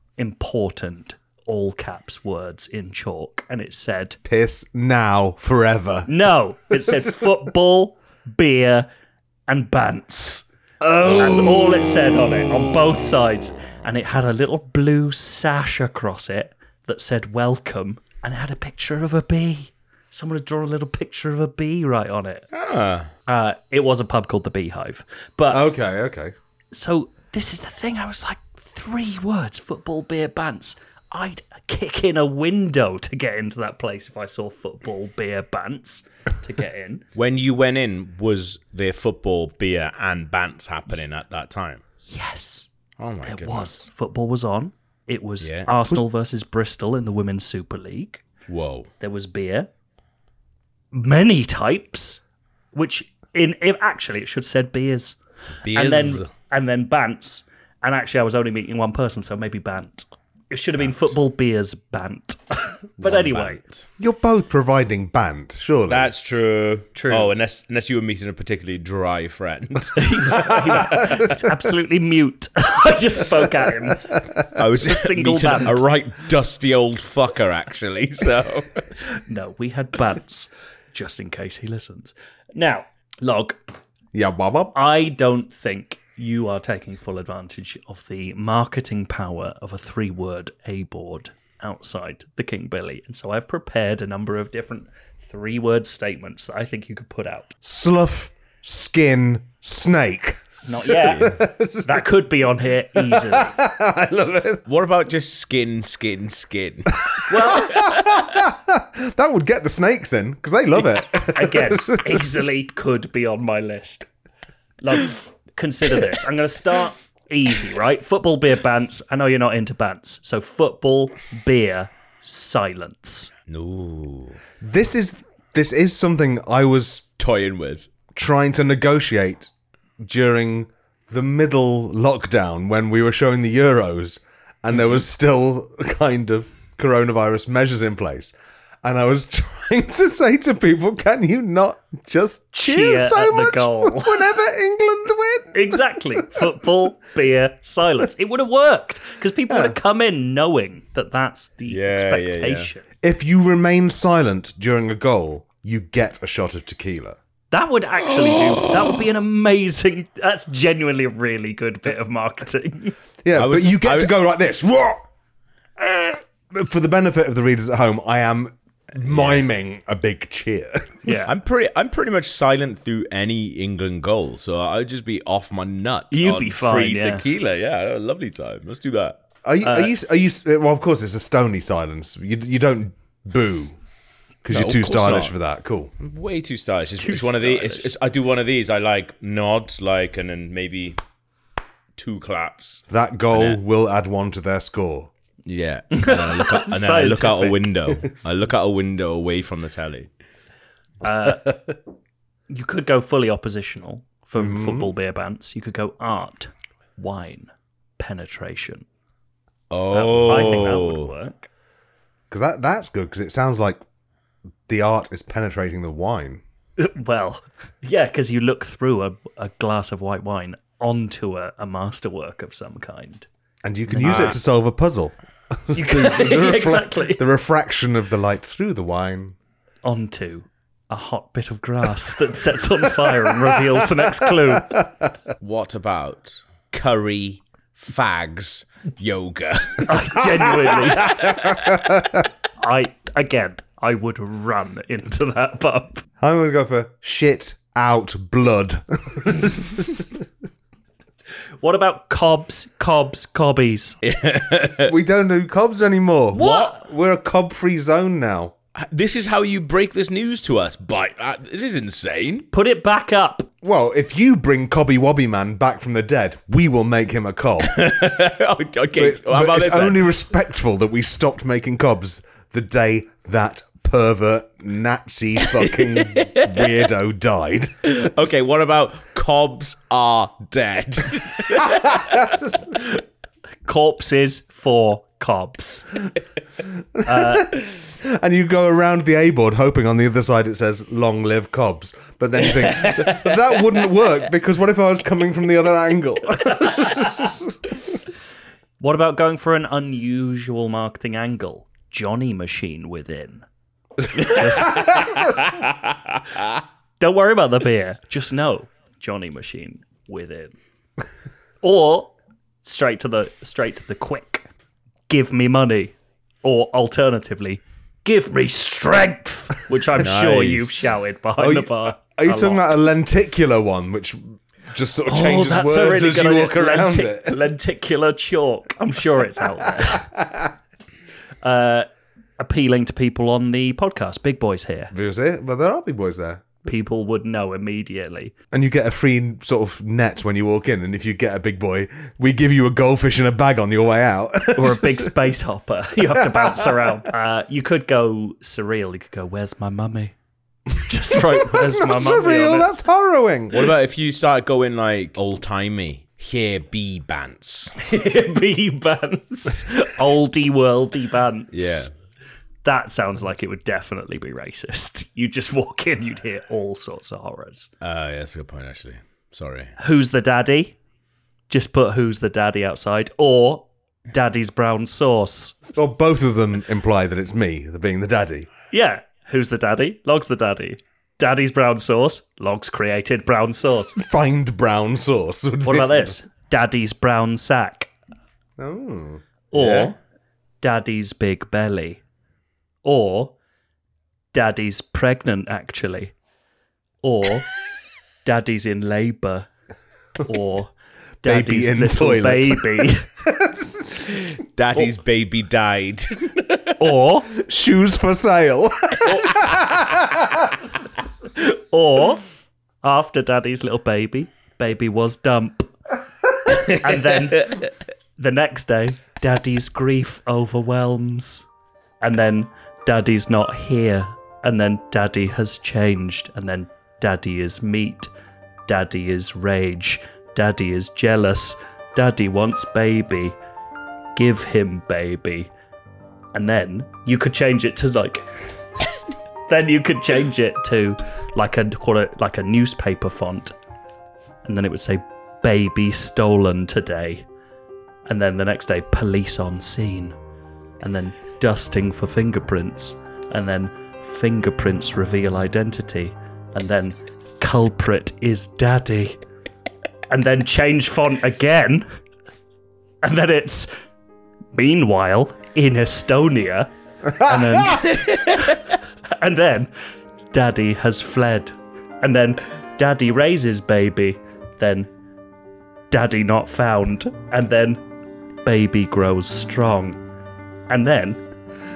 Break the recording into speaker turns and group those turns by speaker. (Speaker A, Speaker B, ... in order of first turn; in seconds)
Speaker A: 0.2-4.2, 6.1-8.9, 9.5-10.5, 11.1-22.5, 23.3-25.6, 26.7-37.0, 42.1-42.7, 43.2-48.2, 49.0-49.7, 50.9-52.2, 52.7-55.2, 55.7-63.6, 67.0-67.3, 70.0-74.2, 74.8-75.8, 79.3-83.6, 84.7-97.6, 100.7-103.5, 107.3-107.8, 111.3-114.1, 114.8-123.3, 142.5-144.3, 145.5-152.8, 157.5-162.9, 171.0-171.3, 176.1-177.2, 179.6-179.9, 187.0-187.9, 195.9-197.6, 201.0-201.5, 202.5-208.8, 209.9-211.5, 216.8-223.3, 223.9-224.3, 225.7-227.2, 229.8-234.8, 239.9-241.2, 242.6-246.1, 251.6-254.0, 256.3-256.7, 262.5-263.5, 283.6-286.0, 287.1-287.5, 298.8-303.4, 304.2-305.1, 307.0-310.6, 311.6-314.5, 315.1-322.6, 325.1-330.1, 331.4-331.9, 332.4-334.9, 336.6-338.3, 344.6-350.1, 350.8-352.7, 357.8-361.9, 362.6-367.7, 369.8-370.8, 371.5-375.6, 378.7-384.0, 385.6-387.9, 389.5-390.0, 390.6-392.0, 392.9-393.3, 394.3-396.1, 397.0-397.5, 398.2-399.5, 400.2-403.1, 406.8-407.3, 411.5-412.2, 412.8-415.7, 416.5-417.6, 418.2-421.5, 422.0-428.1, 428.7-433.4, 434.1-435.5, 436.3-438.3, 439.5-443.5, 444.4-447.2, 448.1-450.2, 450.8-459.2, 460.1-461.9, 463.0-463.7, 464.5-468.6, 469.2-469.7, 470.3-474.9, 475.9-477.8, 478.4-480.0, 480.7-481.2
Speaker B: 4.2-6.1, 10.8-11.8, 25.5-26.3, 64.0-66.1, 84.1-84.8, 97.6-102.0, 103.0-104.6, 107.5-112.4, 124.6-127.1, 128.1-145.7, 149.5-149.8, 153.0-157.2, 163.2-165.1, 165.8-171.2, 179.4-183.8, 184.4-185.9, 192.9-195.1, 204.4-204.9, 212.3-213.8, 214.7-216.4, 223.6-229.4, 234.2-235.0, 241.0-242.2, 246.2-250.2, 254.8-258.5, 263.6-267.7, 268.9-278.0, 281.6-282.9, 286.9-297.6, 321.4-327.4, 329.8-330.5, 334.9-336.6, 338.5-345.1, 346.1-346.9, 351.1-353.7, 375.8-378.5, 384.0-386.2, 388.6-389.2, 401.2-404.1, 407.3-410.4
Speaker C: 22.5-23.1, 37.1-41.8, 43.0-43.9, 45.4-45.7, 48.5-48.9, 55.6-56.3, 63.0-63.9, 65.9-71.2, 74.5-78.8, 100.9-101.3, 104.7-108.2, 123.5-124.4, 127.2-127.9, 151.7-152.7, 158.3-158.9, 163.3-164.1, 169.1-169.4, 171.3-179.2, 184.5-185.3, 186.0-191.0, 192.0-193.6, 195.5-200.1, 209.7-211.1, 235.4-240.0, 241.0-241.6, 254.0-254.9, 256.4-256.8, 258.8-262.5, 267.6-270.1, 276.1-276.6, 277.9-282.3, 292.8-293.3, 304.2-305.3, 320.0-320.9, 353.5-357.8, 361.5-361.9, 367.8-369.7, 389.6-389.9, 404.3-406.8, 468.0-468.5